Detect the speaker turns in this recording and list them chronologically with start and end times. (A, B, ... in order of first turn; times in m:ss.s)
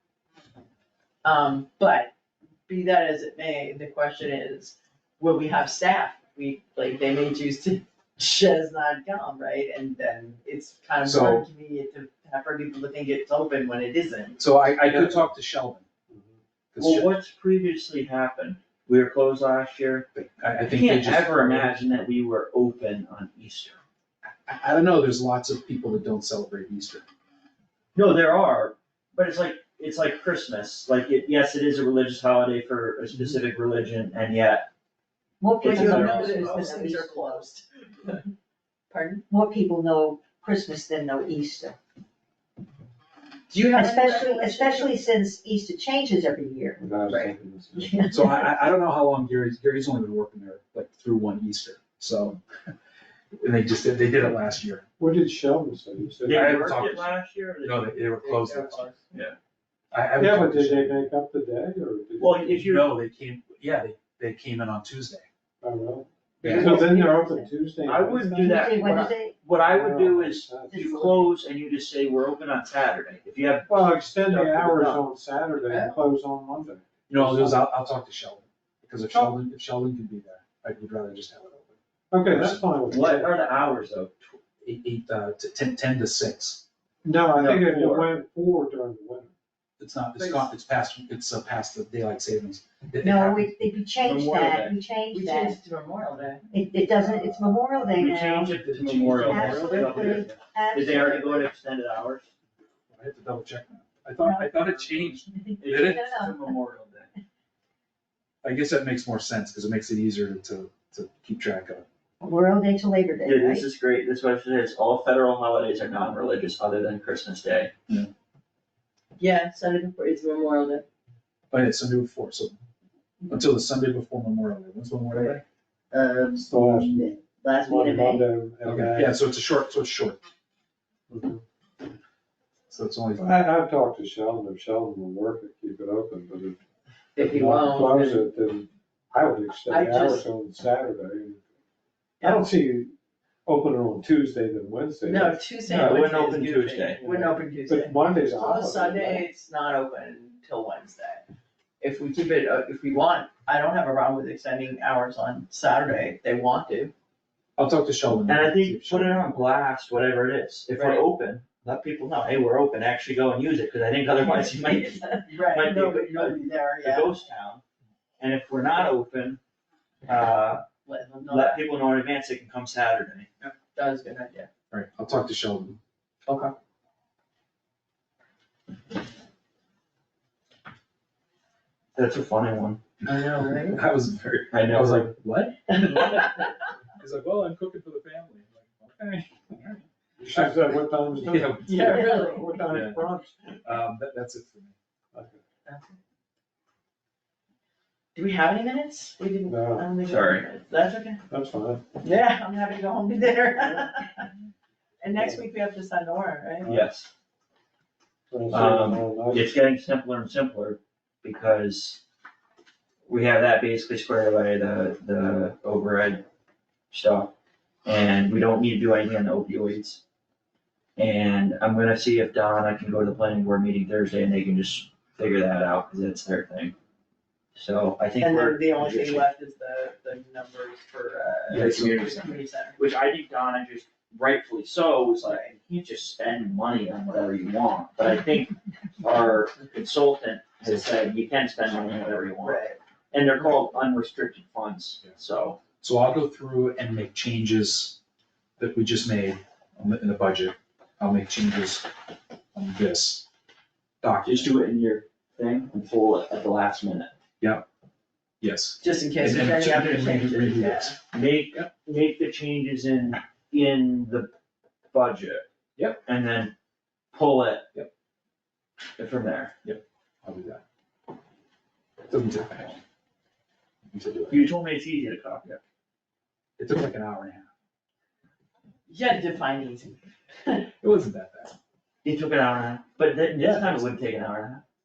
0:01.2-0:02.1 A
0:02.7-0:14.4 A
0:11.0-0:11.4 B
0:14.4-0:15.8 B
0:14.9-0:15.3 C
0:16.1-0:16.4 C
0:16.7-0:17.1 B
0:16.8-0:20.1 D
0:20.1-0:22.1 B
0:20.7-0:23.8 D
0:24.3-0:27.1 B
0:28.0-0:34.7 D
0:35.4-0:37.4 E
0:35.6-0:36.7 D
0:35.6-0:38.3 A
0:38.9-0:39.2 A
0:39.3-0:41.8 E
0:43.5-0:45.1 A
0:43.7-0:48.5 E
0:46.8-0:48.0 C
0:48.1-0:52.4 B
0:53.4-0:54.8 B
0:55.0-0:56.5 C
0:56.2-0:58.1 D
0:56.3-0:58.9 B
0:58.2-0:59.1 A
0:59.9-1:01.1 B
1:00.2-1:02.7 C
1:02.2-1:03.0 D
1:02.6-1:05.3 B
1:05.6-1:08.6 C
1:06.4-1:07.0 D
1:06.4-1:06.8 B
1:06.6-1:07.5 E
1:07.8-1:15.0 D
1:08.2-1:09.4 E
1:08.7-1:09.1 A
1:09.4-1:11.4 C
1:13.7-1:17.7 C
1:15.7-1:16.0 A
1:17.1-1:22.6 B
1:19.1-1:19.4 C
1:22.1-1:23.3 C
1:22.9-1:24.4 D
1:24.6-1:26.6 B
1:27.0-1:29.3 C
1:27.3-1:28.1 D
1:29.8-1:33.5 B
1:30.2-1:30.5 A
1:33.0-1:35.6 E
1:34.0-1:34.8 D
1:35.1-1:36.5 A
1:36.5-1:38.5 E
1:38.0-1:42.3 D
1:38.0-1:40.3 B
1:39.2-1:41.5 E
1:42.9-1:46.1 B
1:44.3-1:44.7 A
1:45.6-1:47.1 D
1:45.8-1:46.4 E
1:48.4-1:51.8 B
1:52.2-1:53.6 E
1:53.2-1:57.7 D
1:59.2-2:00.8 A
2:01.5-2:02.6 B
2:03.3-2:05.4 B
2:05.1-2:05.4 A
2:05.9-2:08.3 A
2:06.4-2:09.2 C
2:08.6-2:10.2 B
2:11.1-2:11.4 C
2:12.7-2:13.4 B
2:13.2-2:16.6 C
2:17.2-2:18.3 A
2:17.2-2:21.4 C
2:19.7-2:20.3 A
2:22.2-2:22.5 A
2:22.2-2:22.9 C
2:23.5-2:25.4 C
2:25.0-2:31.2 A
2:25.7-2:27.0 D
2:27.0-2:29.3 C
2:31.8-2:36.9 A
2:37.6-2:39.4 B
2:38.3-2:47.6 D
2:40.7-2:41.1 A
2:44.2-2:47.2 A
2:48.2-2:49.4 D
2:50.1-2:50.7 D
2:50.8-2:51.7 A
2:51.3-2:53.3 D
2:53.4-2:54.5 A
2:54.7-2:55.8 B
2:56.3-2:56.5 A
3:02.0-3:02.8 D
3:03.0-3:03.8 A
3:03.1-3:12.0 B
3:04.5-3:05.1 D
3:05.7-3:06.3 A
3:10.2-3:13.3 C
3:11.6-3:12.5 A
3:12.7-3:13.1 B
3:13.6-3:14.8 B
3:15.1-3:15.4 C
3:15.7-3:16.0 A
3:18.2-3:21.2 A
3:19.5-3:19.9 C
3:20.0-3:20.5 D
3:21.3-3:21.9 C
3:22.0-3:24.3 A
3:25.0-3:26.7 A
3:26.6-3:27.1 D
3:28.3-3:29.5 C
3:28.5-3:32.0 D
3:33.1-3:36.2 D
3:36.9-3:37.3 D
3:37.8-3:40.0 D
3:41.0-3:46.8 D
3:47.6-3:49.3 D
3:48.2-3:52.8 A
3:51.5-3:52.1 B
3:51.5-4:05.6 D
3:55.2-3:55.5 A
4:02.4-4:02.8 A
4:05.8-4:08.0 B
4:08.6-4:11.9 B
4:12.6-4:13.3 B
4:14.0-4:14.5 B
4:14.2-4:17.1 D
4:18.4-4:21.0 B
4:18.8-4:21.0 A
4:21.1-4:24.3 D
4:24.9-4:25.5 D
4:25.8-4:26.0 B
4:26.0-4:26.5 D
4:27.1-4:27.7 D
4:29.0-4:29.6 D
4:29.6-4:30.6 B
4:32.1-4:32.8 B
4:33.9-4:34.5 B
4:34.3-4:35.6 D
4:36.6-4:37.5 B
4:38.9-4:40.7 A
4:40.8-4:41.6 B
4:42.0-4:44.6 D
4:43.4-4:44.0 B